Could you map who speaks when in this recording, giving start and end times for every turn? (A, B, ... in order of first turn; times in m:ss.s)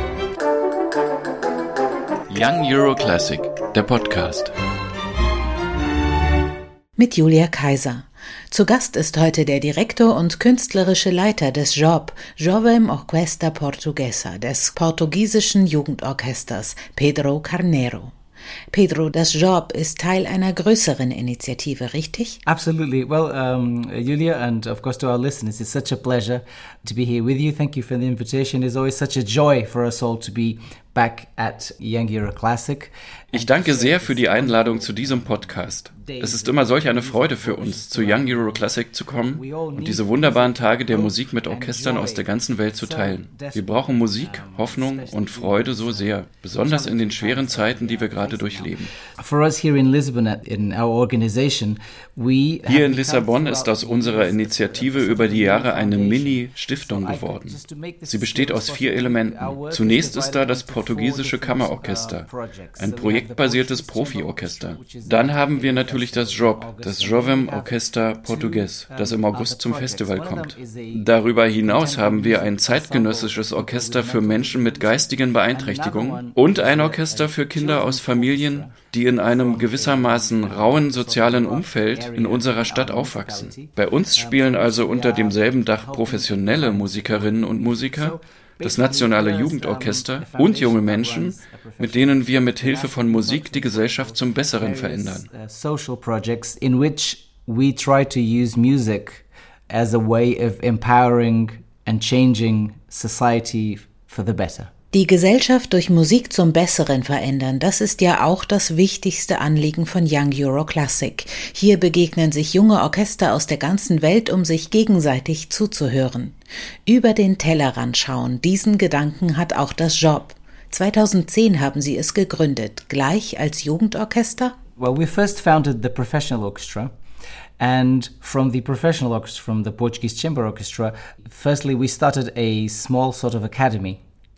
0:02.3-0:04.5 A
0:07.0-0:18.1 B
0:18.7-0:22.4 B
0:22.4-0:38.7 C
0:33.3-0:48.9 A
0:39.3-1:11.1 C
0:52.6-0:57.6 A
0:58.1-1:02.2 A
1:02.8-1:35.3 A
1:11.6-1:44.7 C
1:44.9-2:04.6 B
2:04.8-2:06.9 C
2:07.6-2:14.0 C